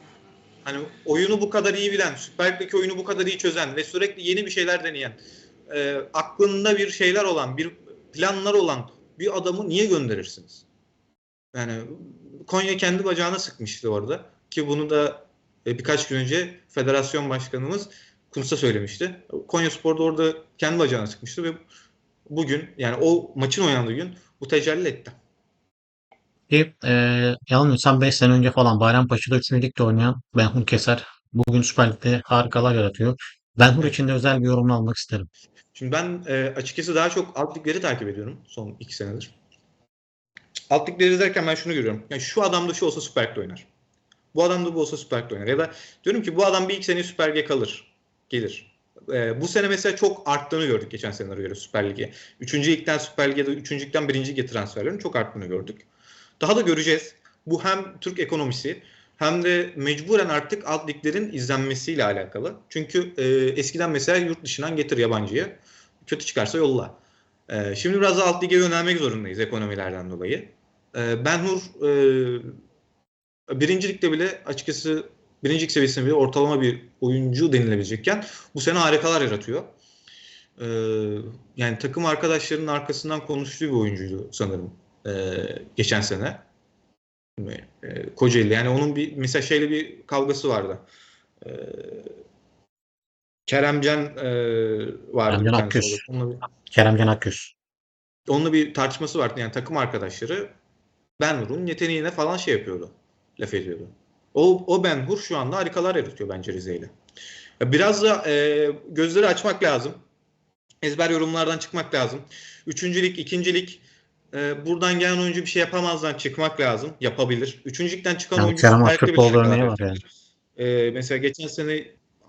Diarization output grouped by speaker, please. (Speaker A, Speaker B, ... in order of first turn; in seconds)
Speaker A: 0.7-10.6, 11.5-21.6, 22.3-25.1, 35.8-39.3, 40.7-43.7, 44.3-55.9, 56.4-67.0, 67.5-72.5, 73.5-79.7, 80.6-86.4, 87.4-90.8, 91.4-92.1, 93.5-96.4, 98.3-100.5, 101.2-106.9, 107.6-110.0, 110.8-120.0, 120.6-122.0
Speaker B: 26.5-35.3, 95.3-96.0, 96.7-97.5, 118.4-120.0